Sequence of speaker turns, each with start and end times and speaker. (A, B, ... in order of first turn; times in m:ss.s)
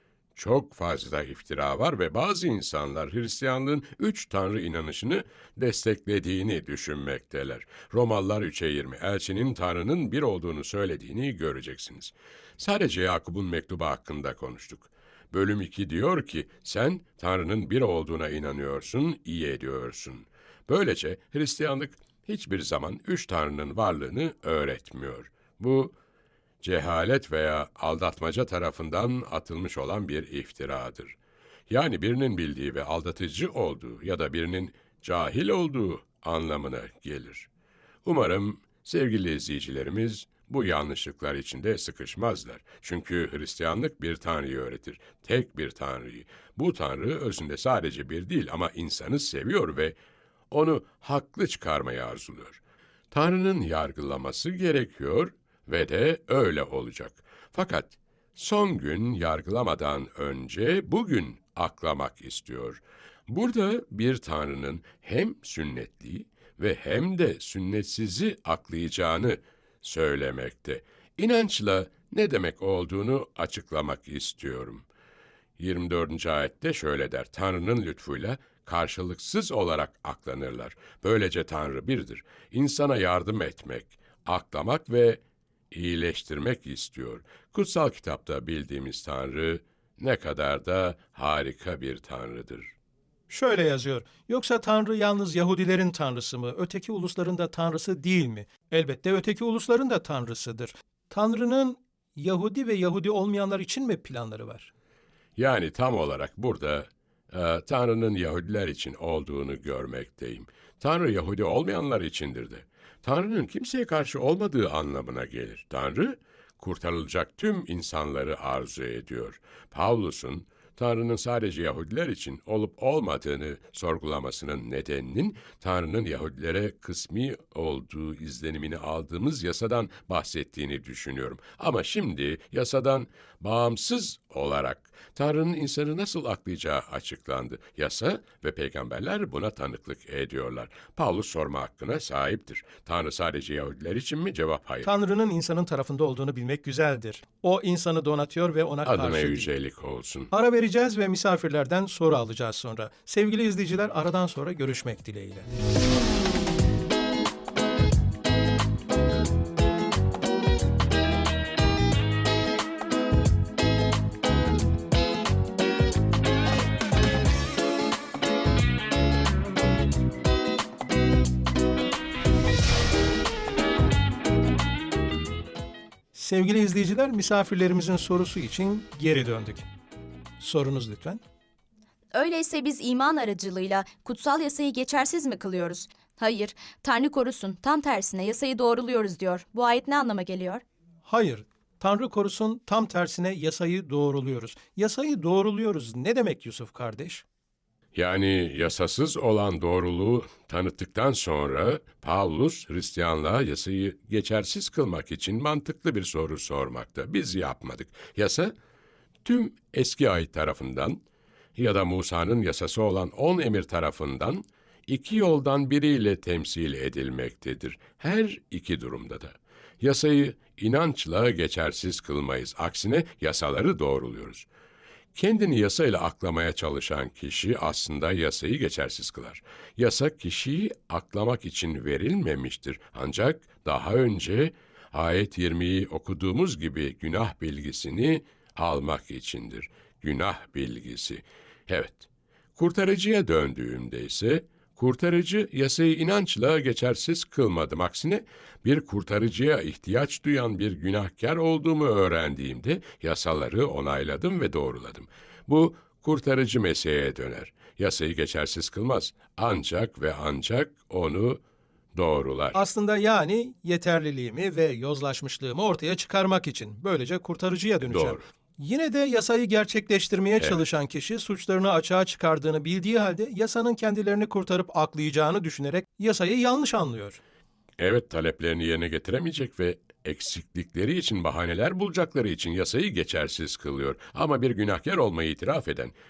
0:00.4-0:26.0 A
0:26.6-0:31.2 A
0:31.7-0:37.5 A
0:38.0-0:50.0 A
0:50.5-0:52.6 A
0:53.1-1:14.8 A
1:15.6-1:32.7 A
1:33.3-1:44.7 B
1:45.4-2:24.9 A
2:24.8-2:29.5 B
2:28.9-2:30.3 A
2:30.3-2:35.5 B
2:56.1-2:59.7 B
3:00.4-3:01.2 B
3:02.1-3:10.6 C
3:11.1-3:17.2 B
3:18.0-3:28.5 A
3:29.2-3:31.0 A
3:31.6-3:44.5 A
3:45.2-4:21.4 A
4:22.0-4:22.6 A
4:22.5-4:37.2 B
4:27.9-4:28.2 A
4:37.8-4:45.9 A